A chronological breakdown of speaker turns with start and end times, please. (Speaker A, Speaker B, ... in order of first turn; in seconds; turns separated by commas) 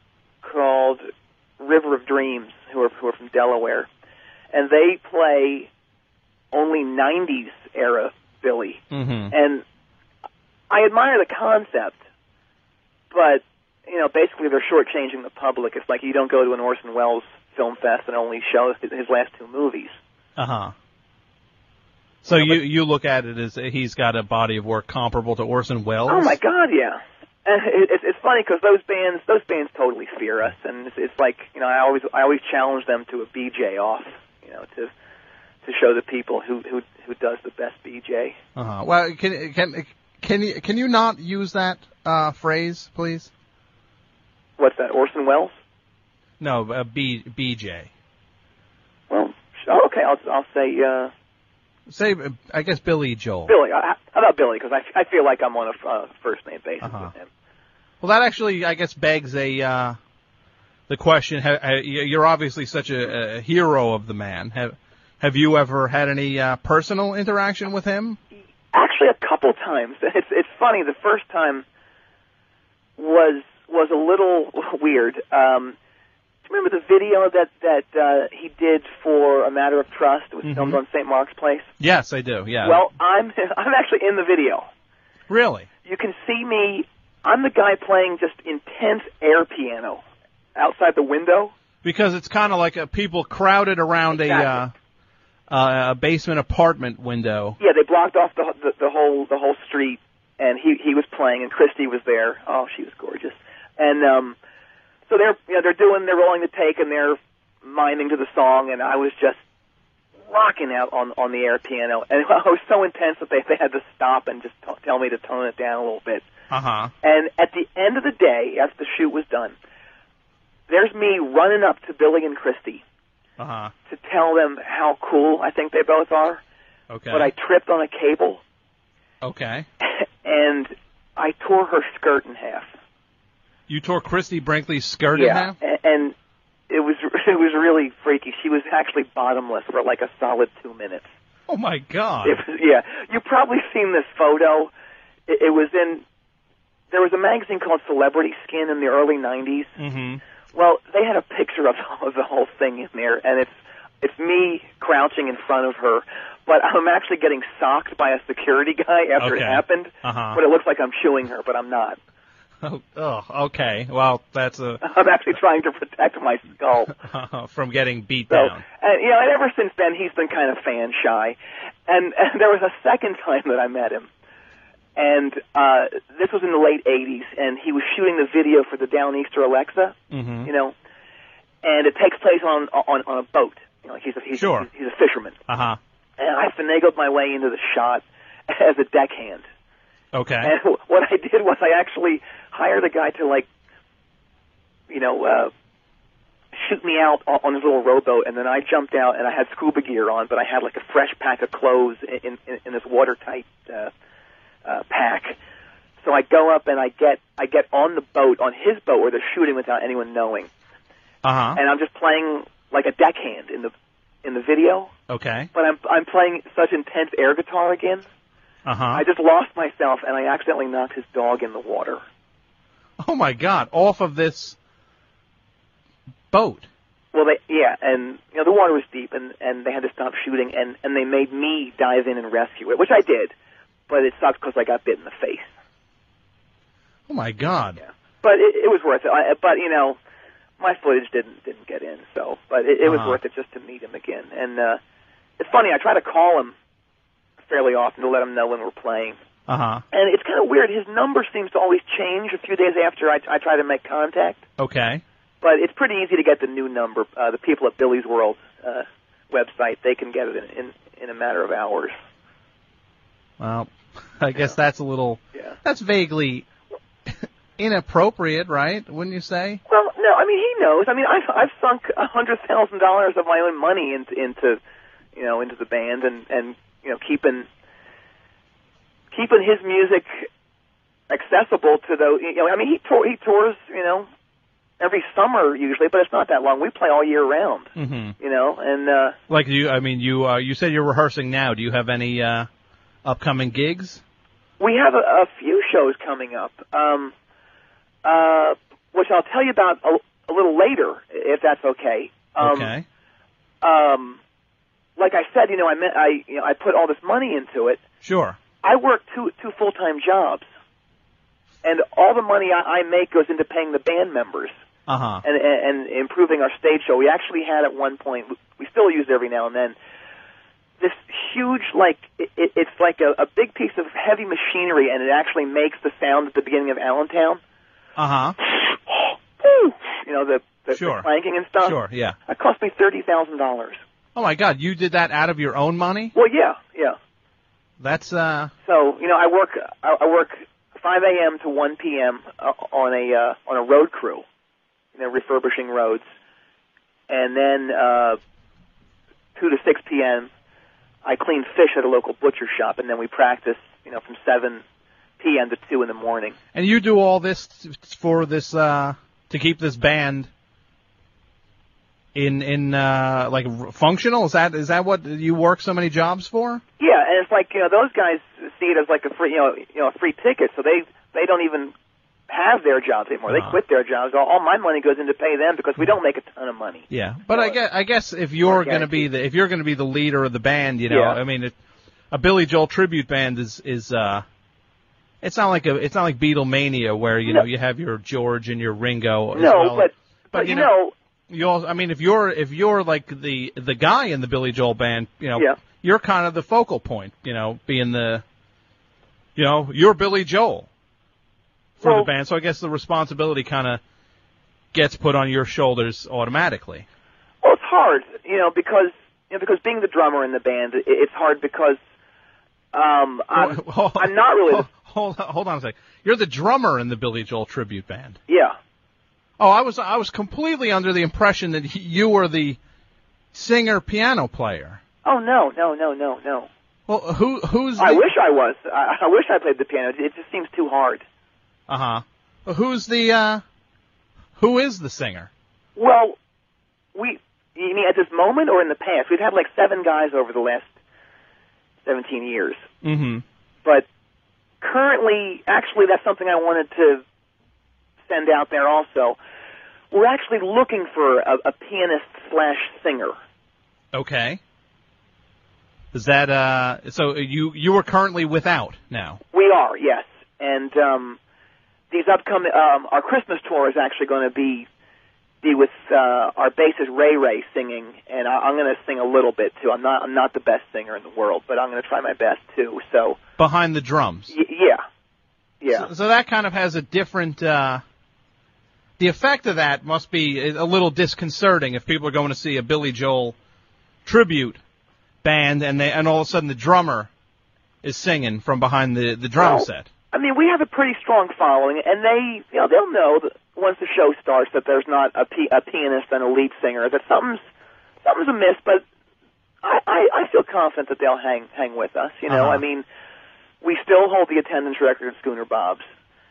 Speaker A: 0.4-3.9, Speaker A: 4.5-5.7, Speaker A: 6.5-9.6, Speaker B: 8.9-9.3, Speaker A: 10.7-12.0, Speaker A: 13.1-19.9, Speaker B: 20.4-20.7, Speaker B: 22.2-26.4, Speaker A: 26.1-34.9, Speaker A: 35.6-38.4, Speaker B: 38.6-43.3, Speaker A: 44.6-45.5, Speaker B: 46.4-47.9, Speaker A: 49.1-51.1, Speaker B: 51.9-53.5, Speaker A: 53.5-57.3, Speaker B: 56.8-57.1, Speaker B: 58.0-60.0, Speaker B: 60.9-68.2, Speaker A: 68.7-71.7, Speaker A: 73.0-75.8, Speaker A: 76.5-81.7, Speaker B: 80.5-80.8, Speaker B: 81.8-82.8, Speaker A: 82.6-84.7, Speaker B: 85.3-85.7, Speaker A: 85.8-90.0, Speaker A: 90.6-91.5, Speaker B: 91.8-94.7, Speaker A: 94.2-94.6, Speaker B: 95.5-97.6, Speaker A: 97.6-104.4, Speaker A: 105.1-109.4, Speaker A: 110.3-116.2, Speaker B: 116.5-116.9, Speaker A: 117.0-119.5, Speaker A: 120.7-122.8, Speaker B: 123.4-123.7, Speaker A: 123.9-126.4, Speaker B: 126.9-127.3, Speaker A: 127.1-128.4, Speaker B: 129.2-129.7, Speaker A: 129.8-132.7, Speaker B: 133.7-135.6, Speaker A: 135.1-136.2, Speaker A: 136.7-141.1, Speaker B: 141.5-142.4, Speaker A: 142.2-144.7, Speaker A: 145.3-146.0, Speaker A: 146.9-149.8, Speaker B: 149.8-150.2, Speaker A: 150.5-162.0, Speaker B: 159.2-160.4, Speaker B: 162.6-164.8, Speaker A: 164.8-166.9, Speaker B: 166.9-168.6, Speaker A: 168.3-174.1, Speaker A: 175.0-180.7, Speaker B: 180.1-180.5, Speaker A: 181.6-185.4, Speaker B: 184.3-184.7, Speaker B: 185.5-185.8, Speaker A: 186.2-189.5, Speaker B: 190.1-190.5, Speaker A: 190.4-193.5, Speaker A: 194.9-195.5, Speaker A: 196.6-203.9, Speaker A: 204.7-205.4, Speaker A: 206.0-210.5, Speaker B: 211.2-211.6, Speaker A: 211.6-213.7, Speaker A: 214.2-214.9, Speaker B: 215.1-215.5, Speaker A: 215.5-218.1, Speaker B: 218.7-219.0, Speaker A: 218.9-222.0, Speaker B: 223.0-224.6, Speaker B: 226.3-226.7, Speaker A: 227.1-233.3, Speaker A: 233.9-235.5, Speaker B: 237.1-237.8, Speaker A: 237.8-240.0, Speaker A: 240.6-244.8, Speaker B: 242.8-243.2, Speaker A: 245.4-246.6, Speaker A: 247.5-249.2, Speaker B: 249.5-249.8, Speaker A: 249.9-254.4, Speaker B: 254.6-255.0, Speaker A: 255.4-261.9, Speaker B: 263.4-266.5, Speaker B: 267.1-269.6, Speaker A: 269.7-274.6, Speaker A: 275.1-277.5, Speaker A: 279.1-280.3, Speaker A: 281.1-284.1, Speaker A: 284.8-289.2, Speaker B: 287.8-288.2, Speaker B: 289.3-292.5, Speaker B: 293.1-294.0, Speaker A: 294.6-297.1, Speaker A: 298.0-302.7, Speaker B: 302.4-302.9, Speaker A: 303.6-304.2, Speaker A: 305.0-307.8, Speaker B: 308.0-308.4, Speaker A: 308.6-310.4, Speaker A: 311.6-314.6, Speaker B: 314.9-315.2, Speaker A: 315.2-319.8, Speaker A: 320.8-327.4, Speaker B: 328.0-328.4, Speaker A: 328.4-333.8, Speaker B: 330.7-331.1, Speaker B: 331.6-332.2, Speaker B: 334.1-336.1, Speaker A: 336.1-337.0, Speaker B: 337.8-338.5, Speaker A: 338.6-344.2, Speaker A: 345.0-346.1, Speaker A: 347.1-348.2, Speaker A: 349.4-350.3, Speaker A: 351.0-354.6, Speaker A: 355.2-356.4, Speaker B: 356.5-360.3, Speaker B: 362.1-366.6, Speaker A: 366.8-371.7, Speaker A: 372.3-377.6, Speaker B: 373.3-373.6, Speaker B: 376.9-381.5, Speaker A: 378.4-379.1, Speaker A: 380.9-381.2, Speaker B: 382.1-384.3, Speaker B: 385.2-390.7, Speaker A: 389.3-390.9, Speaker B: 391.3-398.2, Speaker B: 399.4-400.7, Speaker B: 401.8-403.8, Speaker A: 401.8-402.1, Speaker B: 404.7-406.9, Speaker A: 407.4-411.8, Speaker A: 412.7-414.7, Speaker B: 413.4-418.2, Speaker A: 418.3-418.6, Speaker B: 419.4-422.6, Speaker B: 423.3-424.8, Speaker A: 425.1-426.5, Speaker B: 426.9-428.1, Speaker A: 427.8-431.0, Speaker B: 431.7-433.4, Speaker B: 434.4-435.3, Speaker A: 435.8-436.2, Speaker A: 436.9-440.7, Speaker A: 441.9-442.7, Speaker B: 442.8-443.2, Speaker A: 444.6-447.0, Speaker A: 448.1-449.2, Speaker A: 449.9-453.2, Speaker B: 453.9-454.4, Speaker B: 455.9-459.2, Speaker A: 459.3-461.2, Speaker A: 461.9-464.7, Speaker A: 465.4-473.2, Speaker B: 473.4-474.3, Speaker A: 474.3-474.8, Speaker A: 475.6-475.9, Speaker B: 475.7-477.8, Speaker B: 479.0-483.4, Speaker B: 484.1-484.6, Speaker B: 485.2-487.1, Speaker B: 487.8-489.9, Speaker A: 489.4-497.4, Speaker A: 498.0-498.8, Speaker A: 499.6-502.9, Speaker B: 502.3-502.6, Speaker A: 503.6-505.8